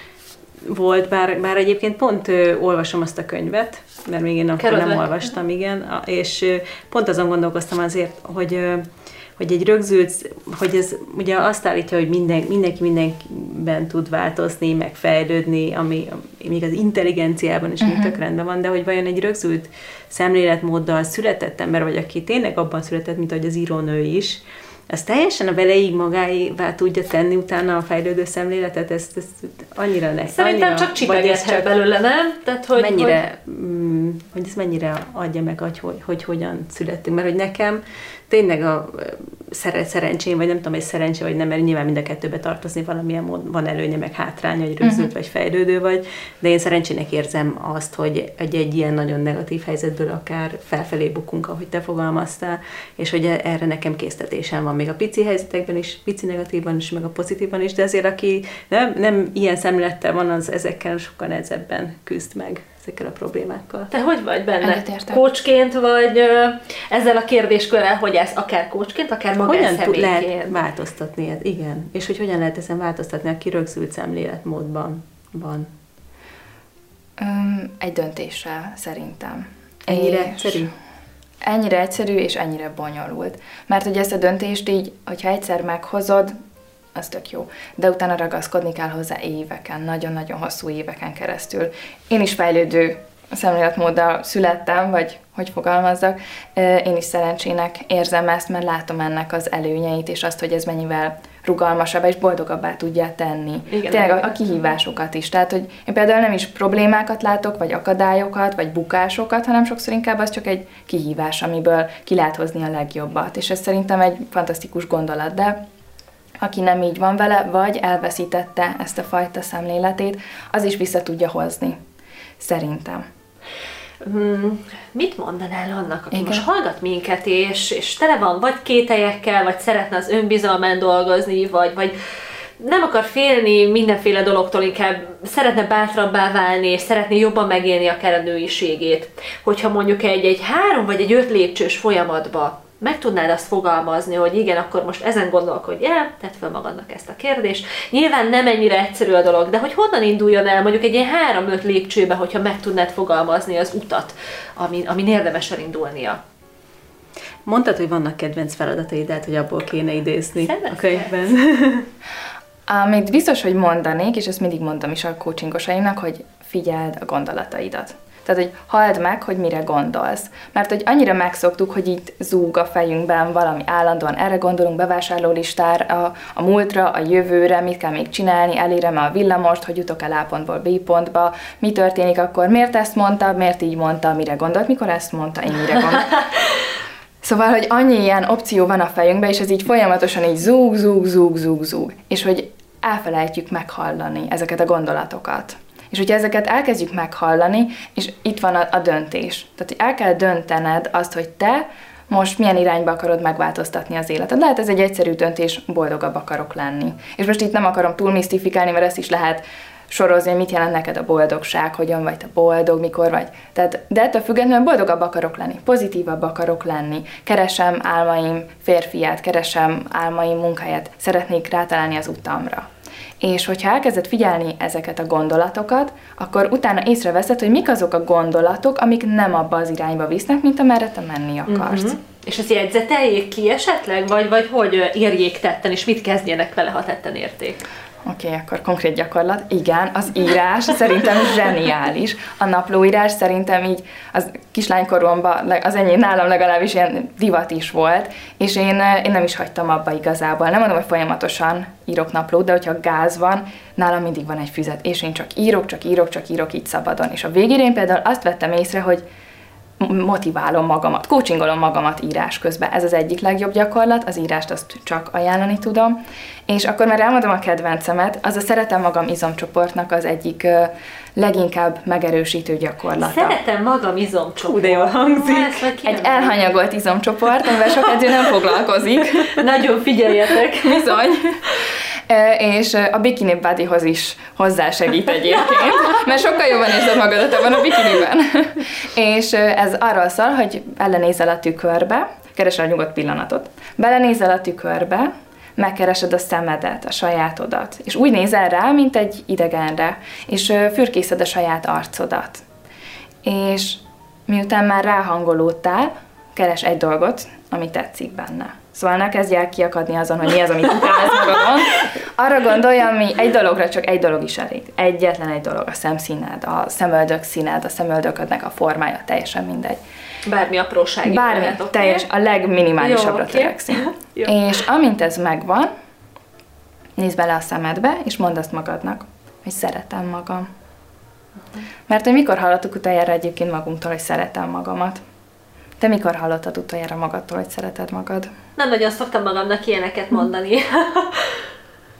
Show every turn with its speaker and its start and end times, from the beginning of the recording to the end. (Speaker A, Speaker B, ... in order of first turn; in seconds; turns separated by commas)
Speaker A: 0.6-31.7, Speaker B: 4.6-5.3, Speaker C: 17.8-18.1, Speaker B: 30.3-33.2, Speaker A: 32.8-63.9, Speaker C: 44.8-45.1, Speaker B: 63.9-70.5, Speaker C: 64.6-65.2, Speaker A: 69.4-75.7, Speaker C: 77.2-80.7, Speaker A: 79.8-80.7, Speaker C: 81.4-86.3, Speaker C: 86.9-115.6, Speaker B: 103.7-104.5, Speaker C: 116.4-121.8, Speaker C: 122.4-123.0, Speaker B: 124.0-131.9, Speaker C: 126.1-126.4, Speaker B: 132.6-156.2, Speaker A: 157.4-161.9, Speaker B: 160.4-161.2, Speaker C: 162.7-186.3, Speaker C: 187.2-222.7, Speaker C: 223.2-231.9, Speaker B: 231.5-237.6, Speaker C: 238.0-259.0, Speaker C: 259.8-273.4, Speaker B: 273.0-276.5, Speaker A: 274.4-275.6, Speaker C: 275.8-279.3, Speaker B: 279.3-280.9, Speaker C: 280.6-281.4, Speaker C: 282.1-302.4, Speaker C: 303.2-319.8, Speaker B: 320.2-322.1, Speaker C: 321.0-325.7, Speaker B: 322.8-324.4, Speaker C: 327.0-330.5, Speaker C: 331.9-335.0, Speaker C: 335.8-338.3, Speaker B: 338.6-341.4